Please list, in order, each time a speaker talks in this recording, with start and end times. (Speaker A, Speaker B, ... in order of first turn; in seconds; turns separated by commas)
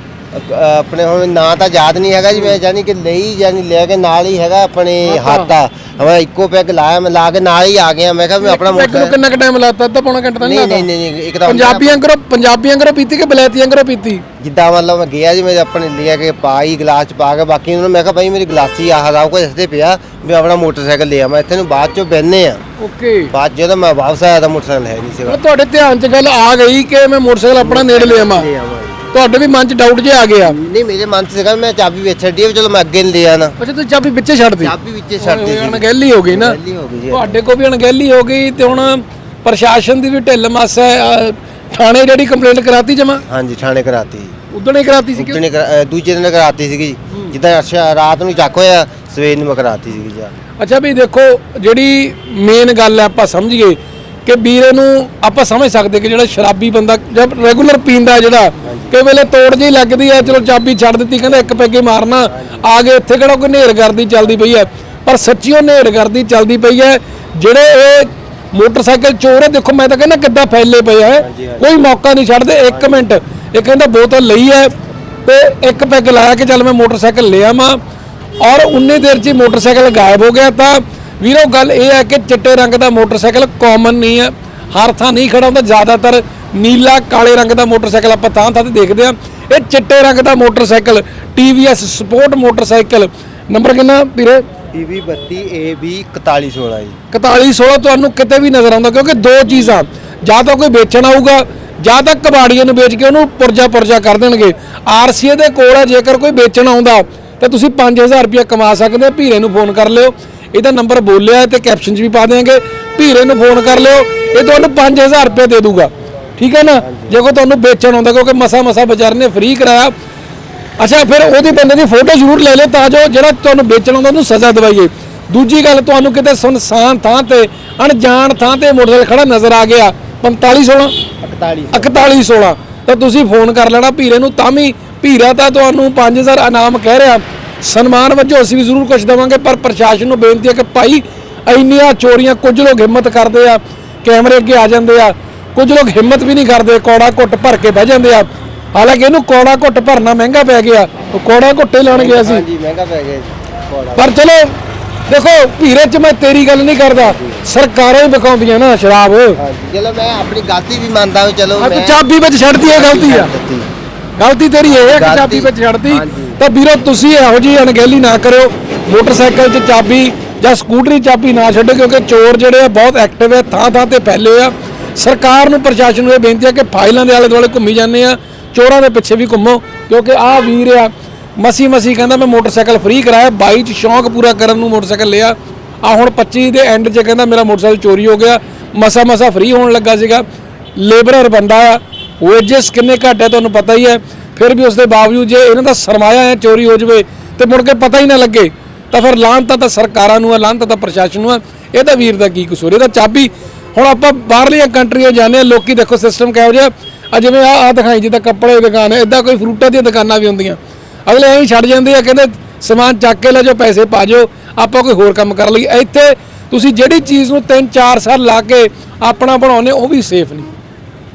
Speaker A: 0.3-9.2, Speaker B: 5.0-5.5, Speaker B: 8.4-10.9, Speaker A: 10.4-12.0, Speaker B: 11.4-14.2, Speaker A: 14.4-22.6, Speaker B: 22.8-23.3, Speaker A: 23.3-25.4, Speaker B: 25.3-28.5, Speaker A: 27.6-29.0, Speaker B: 29.1-30.6, Speaker A: 30.4-33.5, Speaker B: 33.6-36.6, Speaker A: 34.6-37.4, Speaker B: 37.1-43.2, Speaker A: 43.3-44.3, Speaker B: 44.5-45.4, Speaker A: 45.1-50.3, Speaker B: 50.6-77.8, Speaker A: 58.6-59.0, Speaker A: 60.2-60.5, Speaker A: 61.2-61.7, Speaker A: 62.3-62.6, Speaker A: 71.2-71.7, Speaker A: 72.7-73.1, Speaker B: 78.4-94.5, Speaker A: 94.7-97.0, Speaker B: 97.1-119.9, Speaker A: 116.8-117.2, Speaker B: 120.8-130.9, Speaker A: 131.2-132.1, Speaker B: 131.7-152.4, Speaker A: 151.9-154.1, Speaker B: 154.0-154.6, Speaker B: 155.1-159.4, Speaker A: 156.9-157.5, Speaker A: 159.4-162.0, Speaker B: 161.6-163.3, Speaker A: 162.7-163.7, Speaker B: 164.2-190.2, Speaker A: 164.6-166.4, Speaker B: 190.8-220.5